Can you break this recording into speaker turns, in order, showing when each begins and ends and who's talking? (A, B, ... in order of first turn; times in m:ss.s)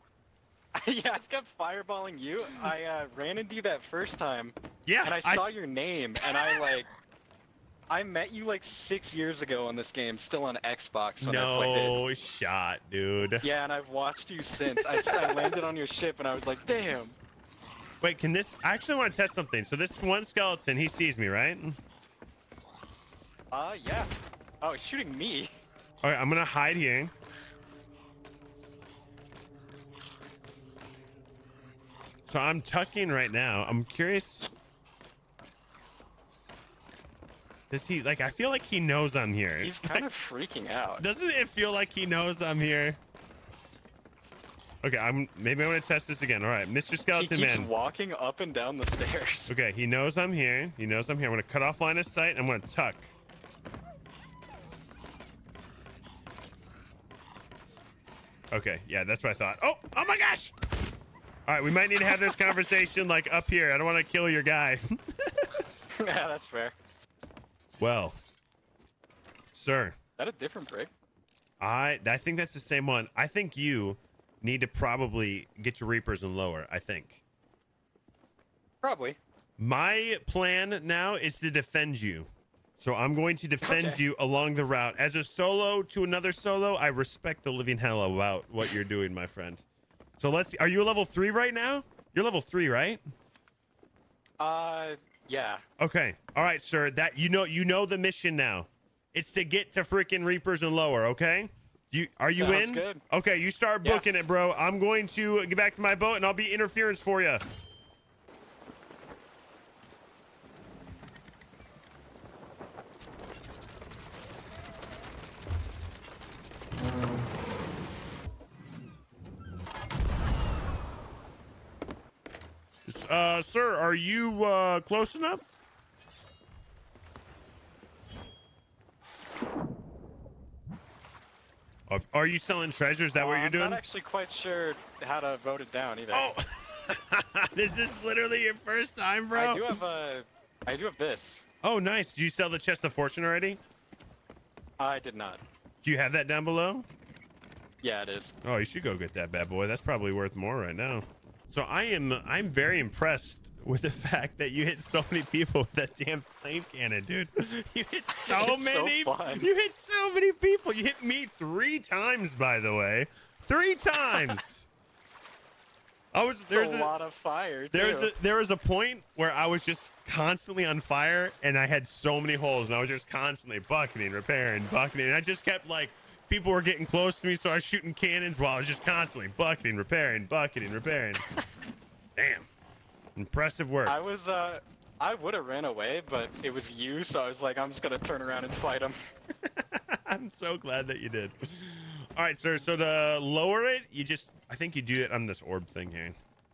0:00.8-0:06.9 A
0:04.9-0:05.5 B
0:07.9-0:12.0 A
0:11.2-0:13.4 B
0:13.4-0:17.2 A
0:14.8-0:15.5 B
0:18.0-0:21.8 B
0:23.5-0:24.1 A
0:24.6-0:25.5 A
0:26.0-0:27.1 B
0:32.3-0:34.5 B
0:37.7-0:40.1 B
0:39.6-0:41.1 A
0:41.0-0:43.0 B
0:44.8-0:47.7 B
0:47.1-0:49.6 A
0:49.5-0:53.1 B
0:58.5-1:00.6 B
1:01.5-1:05.6 B
1:05.9-1:06.8 A
1:07.8-1:08.2 B
1:09.5-1:10.0 B
1:10.2-1:10.9 A
1:11.6-1:17.2 B
1:18.8-1:19.2 A
1:19.6-1:29.6 B
1:23.6-1:24.0 A
1:30.2-1:33.0 B
1:34.4-1:35.6 A
1:35.8-1:47.4 B
1:42.4-1:43.0 A
2:02.9-2:05.5 B
2:11.9-2:13.8 B
2:13.2-2:16.3 A
2:16.1-2:19.8 B
2:19.3-2:21.4 A
2:21.6-2:23.6 B
2:24.8-2:25.4 A
2:25.8-2:26.9 B
2:27.8-2:28.3 A
2:28.4-2:44.7 B
2:38.2-2:39.5 A
2:46.1-2:46.9 B
2:46.5-2:48.1 A
2:47.7-3:01.2 B
3:02.2-3:02.5 B
3:03.2-3:04.0 B
3:03.8-3:09.0 A
3:09.4-3:16.2 B